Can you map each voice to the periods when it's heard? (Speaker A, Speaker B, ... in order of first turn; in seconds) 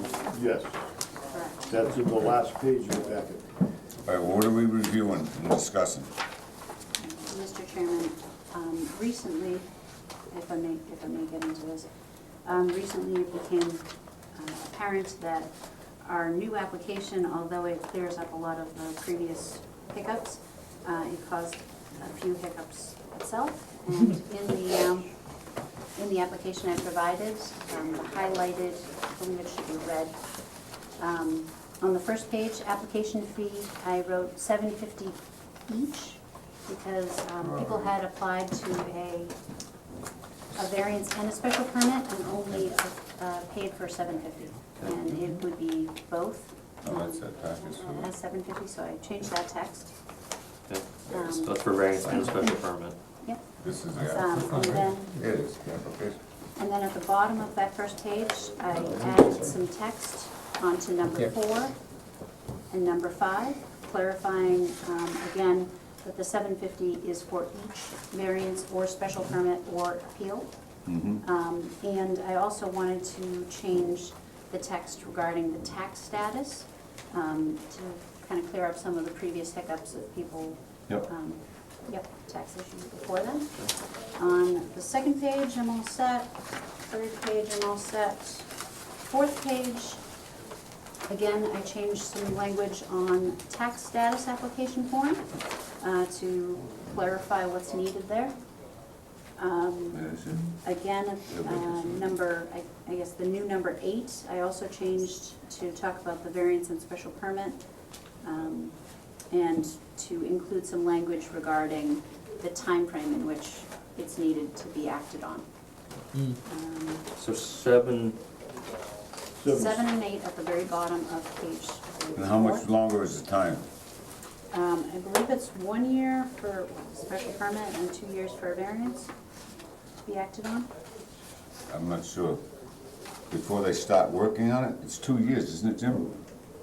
Speaker A: 0.1-0.7, 1.6-3.5, 119.3-119.8
Speaker B: 1.3-1.6, 7.0-9.6, 10.3-11.9, 12.4-25.1, 25.9-30.2, 30.9-39.4, 40.5-49.9, 51.1-52.5, 54.1-55.1, 56.6-61.8, 62.7-70.5, 71.2-86.3, 86.9-88.5, 89.0-90.0, 91.1-95.3, 95.8-98.3, 99.4-107.6, 108.2-108.8, 109.3-115.4, 116.4-117.1, 119.5-122.7, 124.5-129.1, 130.0-130.7
Speaker C: 4.0-6.1, 37.4-37.9, 46.8-48.1, 53.6-56.2, 70.9-71.2, 99.9-100.5, 101.3-102.1, 122.1-123.6, 131.7-132.4, 133.3-136.1
Speaker D: 50.7-52.9, 117.2-118.2